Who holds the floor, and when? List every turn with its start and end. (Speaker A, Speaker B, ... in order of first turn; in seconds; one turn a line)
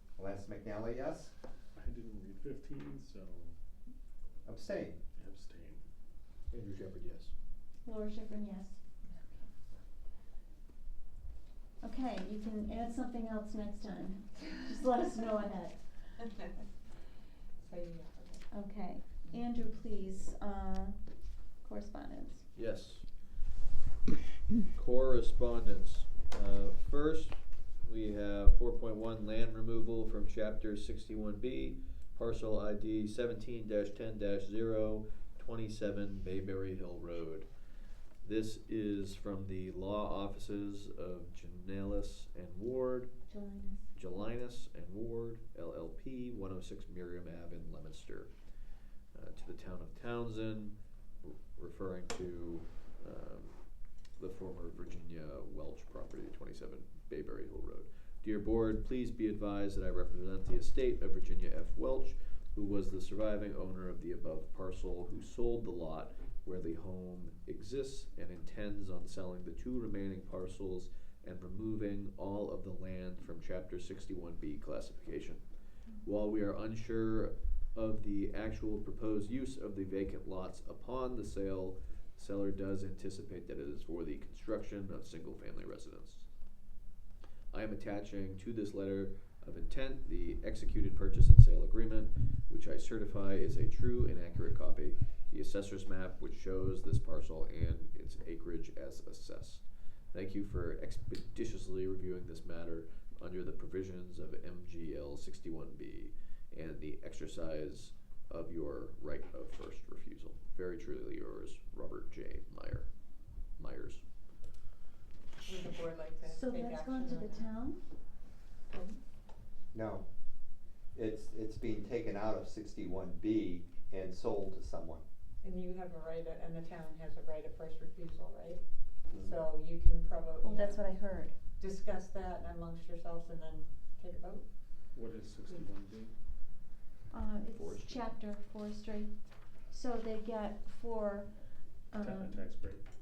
Speaker A: 0.2-1.3
Speaker B: 1.8-3.6
Speaker A: 4.5-5.0
Speaker B: 5.2-5.9
Speaker C: 6.5-7.3
Speaker D: 7.8-8.8
Speaker E: 9.1-9.5
Speaker D: 11.8-15.8
Speaker E: 17.6-18.4
Speaker D: 18.5-21.0
Speaker D: 21.6-22.4
Speaker C: 22.6-23.1
Speaker C: 24.8-37.5
Speaker C: 38.2-43.1
Speaker D: 43.3-43.9
Speaker C: 44.0-48.3
Speaker C: 49.1-53.7
Speaker C: 54.2-75.4
Speaker C: 76.0-86.3
Speaker C: 87.5-112.9
Speaker C: 113.6-114.0
Speaker E: 115.5-117.5
Speaker D: 116.2-117.8
Speaker E: 118.7-119.0
Speaker A: 119.7-120.0
Speaker A: 121.0-125.0
Speaker E: 125.4-128.6
Speaker E: 129.2-130.8
Speaker D: 130.4-131.3
Speaker E: 131.6-134.5
Speaker B: 134.9-136.2
Speaker D: 137.1-139.1
Speaker C: 137.5-138.2
Speaker D: 139.7-141.3
Speaker D: 141.9-142.4
Speaker B: 141.9-142.9